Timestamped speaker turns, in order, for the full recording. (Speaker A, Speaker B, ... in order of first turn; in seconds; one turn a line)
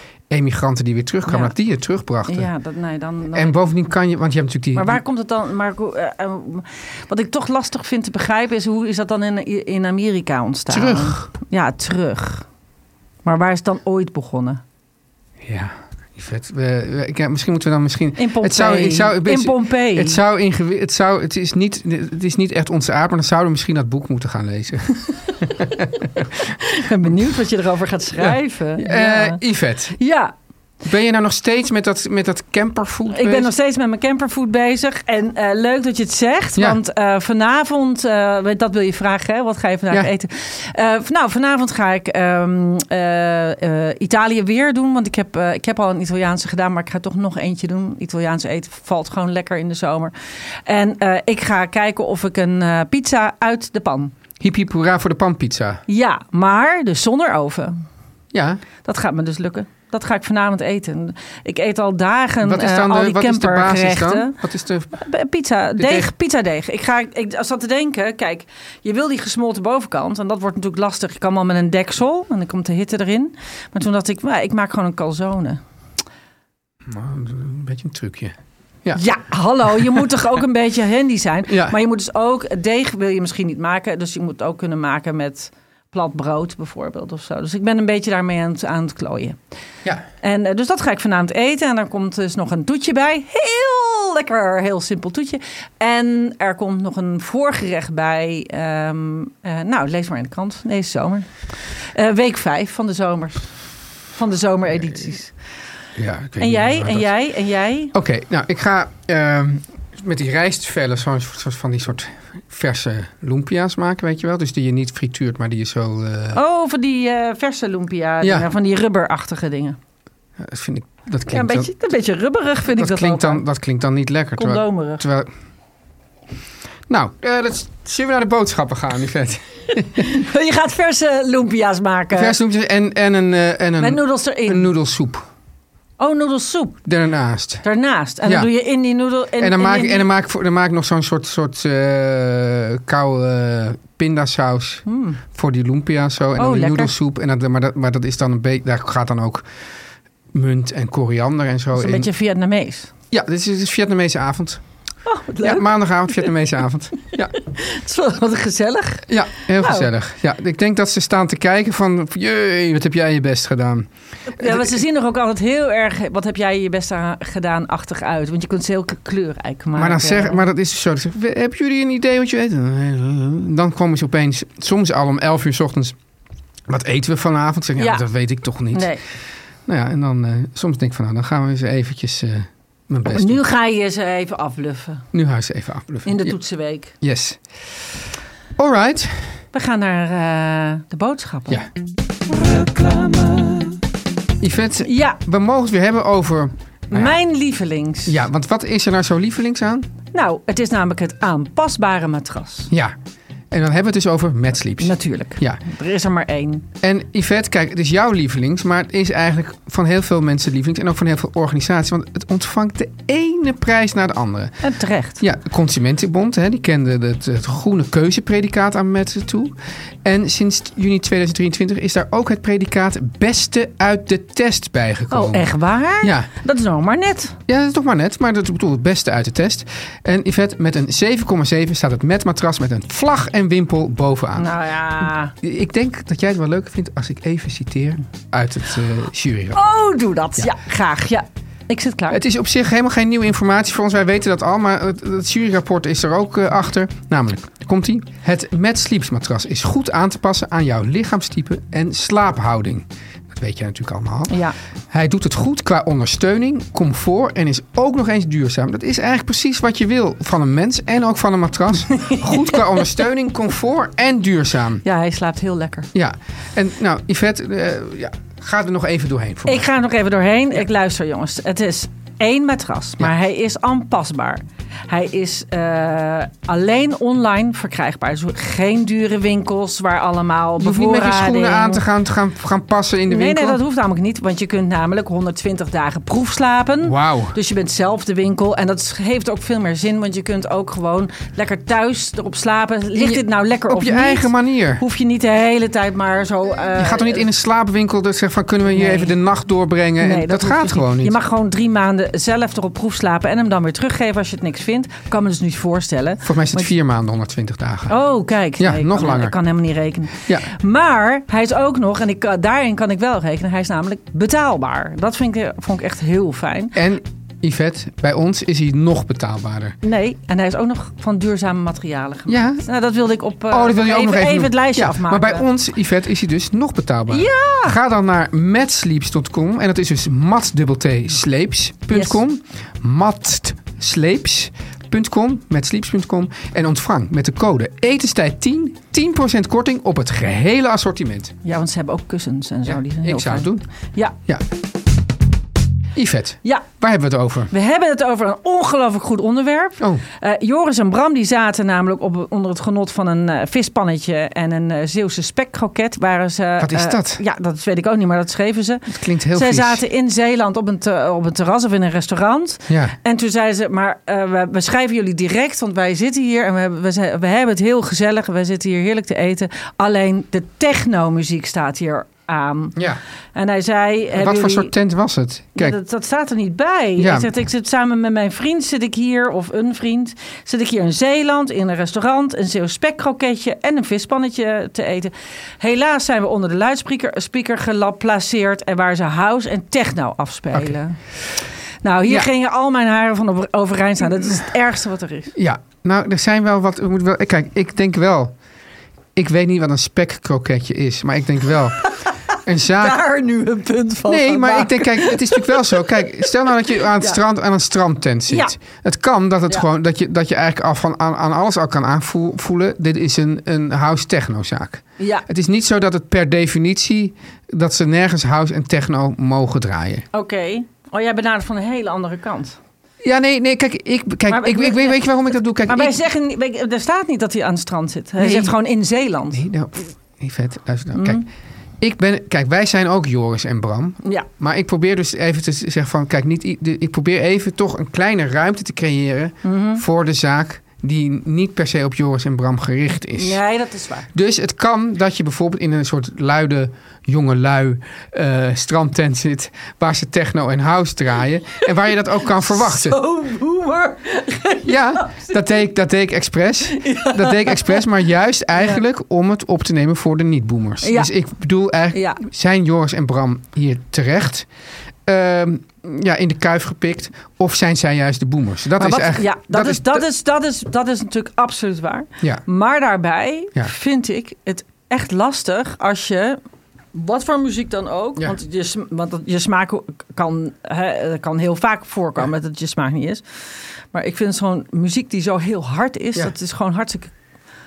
Speaker A: 0.3-2.5
Speaker B: 1.3-1.5
Speaker B: 2.3-3.5
Speaker A: 3.3-5.0
Speaker B: 4.7-12.4
Speaker A: 10.7-11.3
Speaker B: 13.2-14.6
Speaker A: 15.4-26.5
Speaker B: 18.2-20.2
Speaker B: 26.6-29.4
Speaker A: 28.2-30.0
Speaker B: 30.0-30.3
Speaker A: 30.8-33.5
Speaker B: 33.1-54.1
Speaker A: 54.4-55.8
Speaker B: 55.9-57.8
Speaker A: 58.3-58.6
Speaker B: 58.8-64.4
Speaker A: 62.4-65.0
Speaker B: 64.9-75.6
Speaker A: 65.8-66.1
Speaker A: 76.8-79.0
Speaker B: 78.9-89.4
Speaker A: 81.5-81.8
Speaker B: 90.2-105.3
Speaker A: 106.0-107.1
Speaker B: 106.4-107.9
Speaker A: 107.9-116.4
Speaker B: 116.3-119.8
Speaker A: 118.2-118.5
Speaker A: 120.4-121.7
Speaker B: 121.3-123.4
Speaker A: 122.8-125.3
Speaker B: 124.4-125.0
Speaker A: 126.9-130.1
Speaker B: 129.9-132.3
Speaker A: 132.1-135.2
Speaker B: 133.8-134.7
Speaker B: 136.0-136.8
Speaker A: 136.8-137.6
Speaker B: 137.6-140.1
Speaker A: 138.2-138.5
Speaker A: 139.4-149.5
Speaker B: 144.8-145.2
Speaker B: 146.4-146.9
Speaker A: 150.3-152.1
Speaker B: 151.7-152.9
Speaker A: 153.1-154.6
Speaker B: 155.1-156.3
Speaker A: 155.4-157.3
Speaker B: 157.4-159.1
Speaker A: 159.1-164.8
Speaker B: 159.6-159.9
Speaker B: 164.3-170.4
Speaker A: 169.8-175.9
Speaker A: 176.7-178.9
Speaker B: 177.8-178.1
Speaker B: 178.7-179.0
Speaker A: 179.7-183.4
Speaker B: 183.1-185.0
Speaker A: 185.1-186.3
Speaker B: 186.0-186.9
Speaker A: 186.9-187.4
Speaker A: 188.6-189.4
Speaker B: 189.5-191.6
Speaker A: 194.4-197.2
Speaker B: 194.8-195.2
Speaker B: 196.9-198.2
Speaker A: 198.1-199.9
Speaker B: 200.1-202.7
Speaker A: 203.5-205.6
Speaker B: 204.8-206.7
Speaker A: 206.8-214.6
Speaker B: 214.6-215.2
Speaker A: 215.2-225.5
Speaker B: 225.1-227.3
Speaker A: 226.0-226.3
Speaker A: 227.5-239.6
Speaker B: 234.4-235.3
Speaker B: 239.5-242.2
Speaker A: 242.1-254.4
Speaker B: 254.3-254.6
Speaker A: 254.9-264.8
Speaker B: 261.9-262.8
Speaker B: 264.8-265.9
Speaker A: 265.9-269.6
Speaker B: 269.4-281.8
Speaker A: 280.6-283.6
Speaker B: 283.1-297.2
Speaker A: 286.8-287.4
Speaker A: 292.9-294.8
Speaker A: 296.8-301.2
Speaker B: 298.7-299.1
Speaker B: 300.0-306.7
Speaker A: 306.2-307.9
Speaker B: 307.9-316.7
Speaker A: 308.6-309.4
Speaker A: 316.7-319.8
Speaker B: 319.8-325.4
Speaker A: 322.3-322.6
Speaker A: 323.5-341.3
Speaker B: 327.1-327.8
Speaker B: 331.9-332.2
Speaker B: 341.4-344.1
Speaker A: 342.7-343.6
Speaker A: 345.9-347.5
Speaker B: 347.5-372.8
Speaker A: 356.6-357.2
Speaker A: 358.9-359.8
Speaker A: 362.7-362.9
Speaker B: 373.3-374.7
Speaker A: 374.1-375.8
Speaker B: 375.6-391.0
Speaker A: 377.0-377.3
Speaker B: 391.8-395.3
Speaker A: 395.3-398.3
Speaker A: 399.1-401.8
Speaker B: 401.8-407.2
Speaker A: 402.4-403.0
Speaker A: 404.1-420.1
Speaker B: 408.3-408.5
Speaker B: 415.0-415.2
Speaker B: 420.1-422.6
Speaker A: 423.0-426.0
Speaker B: 424.3-425.0
Speaker B: 425.7-429.4
Speaker A: 428.2-428.6
Speaker A: 429.3-431.2
Speaker B: 430.9-431.2
Speaker A: 431.8-443.4
Speaker B: 439.4-439.8
Speaker B: 443.1-444.1
Speaker A: 444.1-453.0
Speaker B: 452.4-455.4
Speaker A: 454.6-464.5
Speaker B: 456.8-457.8
Speaker B: 460.8-461.1
Speaker B: 461.9-462.2
Speaker A: 465.1-470.0
Speaker B: 468.8-476.4
Speaker B: 476.9-483.2
Speaker B: 483.9-487.1